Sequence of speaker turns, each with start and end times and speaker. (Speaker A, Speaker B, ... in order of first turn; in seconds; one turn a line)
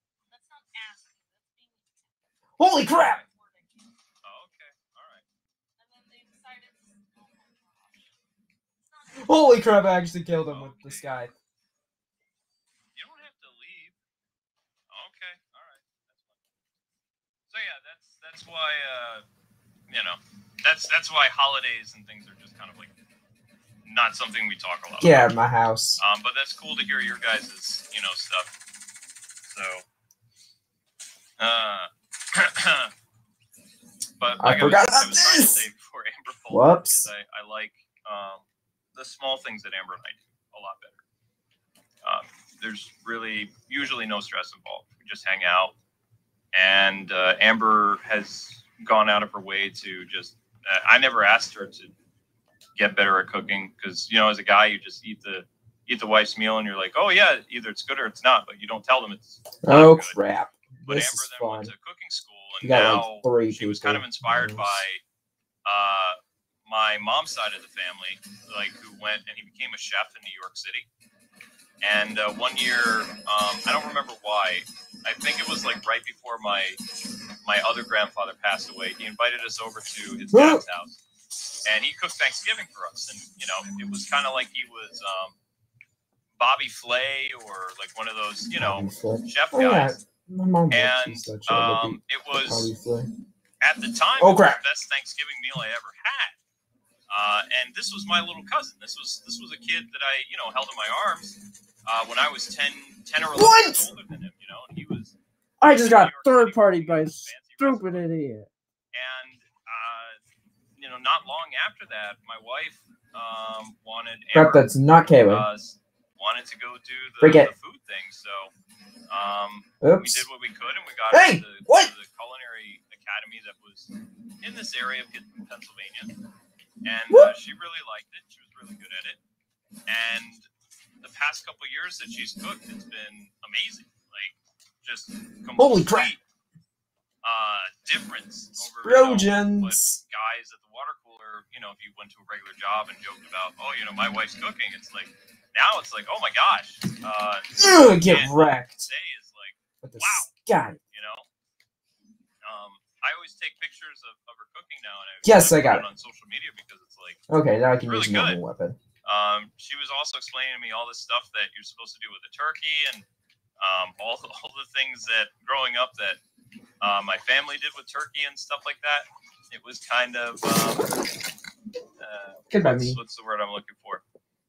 Speaker A: 0.3-3.9
Speaker B: 2.6-3.2
Speaker C: 4.2-5.2
Speaker A: 5.8-8.1
Speaker A: 8.8-10.1
Speaker B: 9.2-11.3
Speaker C: 10.5-11.1
Speaker C: 12.9-13.9
Speaker C: 14.9-16.4
Speaker C: 17.5-19.2
Speaker C: 19.9-22.9
Speaker C: 23.8-25.3
Speaker B: 25.0-26.0
Speaker C: 26.0-28.5
Speaker C: 29.5-29.8
Speaker C: 31.4-32.9
Speaker C: 34.2-41.0
Speaker B: 34.4-35.6
Speaker B: 36.5-37.1
Speaker C: 42.0-45.7
Speaker C: 46.5-51.9
Speaker C: 52.8-60.2
Speaker B: 59.6-61.7
Speaker C: 60.9-65.0
Speaker B: 62.6-64.8
Speaker C: 65.6-70.9
Speaker C: 71.8-76.8
Speaker C: 77.4-81.0
Speaker B: 80.3-80.6
Speaker C: 81.6-85.3
Speaker C: 86.3-90.0
Speaker B: 88.5-93.1
Speaker C: 90.7-92.7
Speaker C: 93.6-96.4
Speaker B: 94.2-94.6
Speaker C: 97.1-105.1
Speaker B: 103.3-103.9
Speaker B: 105.6-108.5
Speaker C: 105.7-108.1
Speaker C: 108.9-110.2
Speaker C: 110.8-114.7
Speaker B: 114.3-115.5
Speaker C: 115.3-118.5
Speaker B: 117.2-117.5
Speaker C: 119.1-123.9
Speaker B: 119.8-120.2
Speaker B: 121.1-121.9
Speaker C: 124.4-126.1
Speaker C: 126.8-129.2
Speaker B: 127.1-127.3
Speaker C: 129.9-130.5
Speaker C: 131.0-136.2
Speaker B: 135.6-136.1
Speaker C: 137.2-150.3
Speaker B: 138.6-140.0
Speaker B: 147.6-148.9
Speaker B: 149.8-150.8
Speaker C: 150.9-151.3
Speaker C: 152.4-157.2
Speaker B: 155.2-155.8
Speaker B: 157.3-158.8
Speaker C: 157.9-158.4
Speaker C: 159.0-163.1
Speaker C: 163.6-166.2
Speaker C: 166.8-170.9
Speaker C: 172.0-174.0
Speaker B: 172.5-173.0